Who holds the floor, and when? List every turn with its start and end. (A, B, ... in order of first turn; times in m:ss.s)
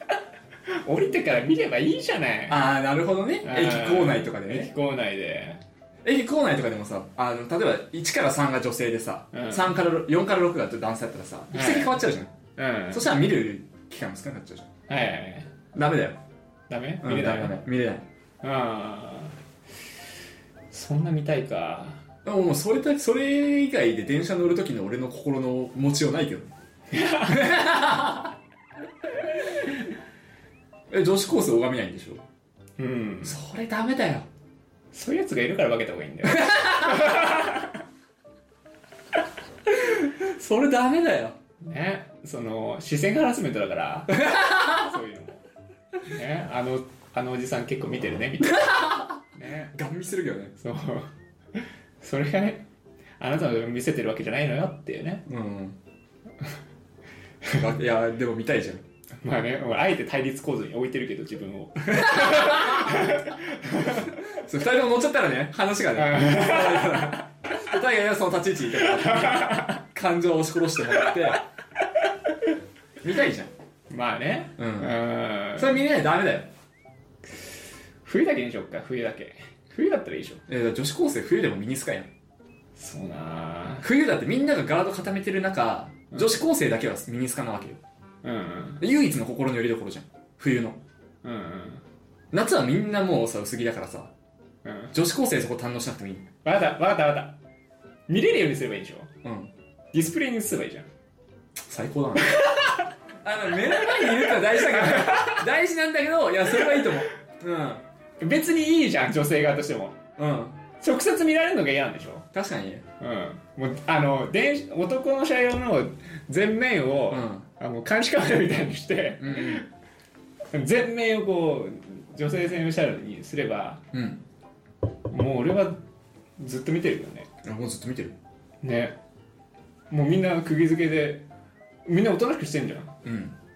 0:00.7-0:02.6 A
0:02.5-0:04.7 B
0:03.4-0:05.6 A
0:06.0-0:12.3 B
0:09.3-0:09.7 A
0:11.5-0:12.0 A
0:12.6-0:13.1 A
0:12.9-0:14.7 B
0:14.9-0:15.5 A
0:15.7-0:16.2 B
0:16.7-0:17.6 A
0:17.0-0:18.1 B
0:18.4-0:19.4 A
0:20.7-0:22.0 A
0:22.2-0:26.5 B
0:26.9-0:27.6 A
0:27.3-0:28.3 B
0:30.9-0:32.2 B
0:32.8-0:33.4 A
0:33.2-0:34.3 B
0:34.9-0:37.8 A
0:36.2-0:37.3 B
0:39.7-0:41.4 B
0:41.6-0:45.4 A
0:44.1-0:44.8 B
0:46.0-0:49.7 A
0:48.4-0:49.1 B
0:49.7-0:50.6 B
0:50.6-0:52.6 A
0:53.2-0:55.2 A
0:55.3-0:55.8 B
0:57.5-0:58.8 B
0:59.2-1:04.2 A
1:01.9-1:03.0 B
1:03.9-1:11.4 B
1:06.0-1:07.2 A
1:08.7-1:09.8 A
1:13.0-1:13.5 B
1:13.9-1:15.8 A
1:14.6-1:15.0 B
1:15.6-1:16.5 B
1:18.0-1:20.4 A
1:20.5-1:22.1 B
1:22.8-1:23.9 A
1:23.8-1:27.8 B
1:28.2-1:28.8 A
1:28.8-1:30.8 B
1:31.2-1:31.8 A
1:32.3-1:34.1 B
1:34.6-1:34.9 A
1:34.9-1:36.2 B
1:36.4-1:37.4 A
1:38.1-1:39.1 A
1:39.2-1:39.5 B
1:39.9-1:40.9 A
1:41.7-1:42.4 B
1:42.3-1:42.7 A
1:43.2-1:47.8 B
1:43.8-1:45.4 A
1:46.5-1:46.9 A
1:48.2-1:50.0 A
1:50.2-1:50.6 B
1:50.8-1:52.3 A
1:52.3-1:52.8 B
1:53.0-1:59.7 A
1:57.1-1:57.4 B
1:59.2-1:59.7 B
2:00.5-2:03.8 A
2:03.9-2:04.2 B
2:05.1-2:05.8 A
2:06.4-2:07.3 A
2:07.4-2:08.2 B
2:08.6-2:09.0 A
2:09.9-2:11.3 A
2:11.9-2:12.9 A
2:13.0-2:13.4 B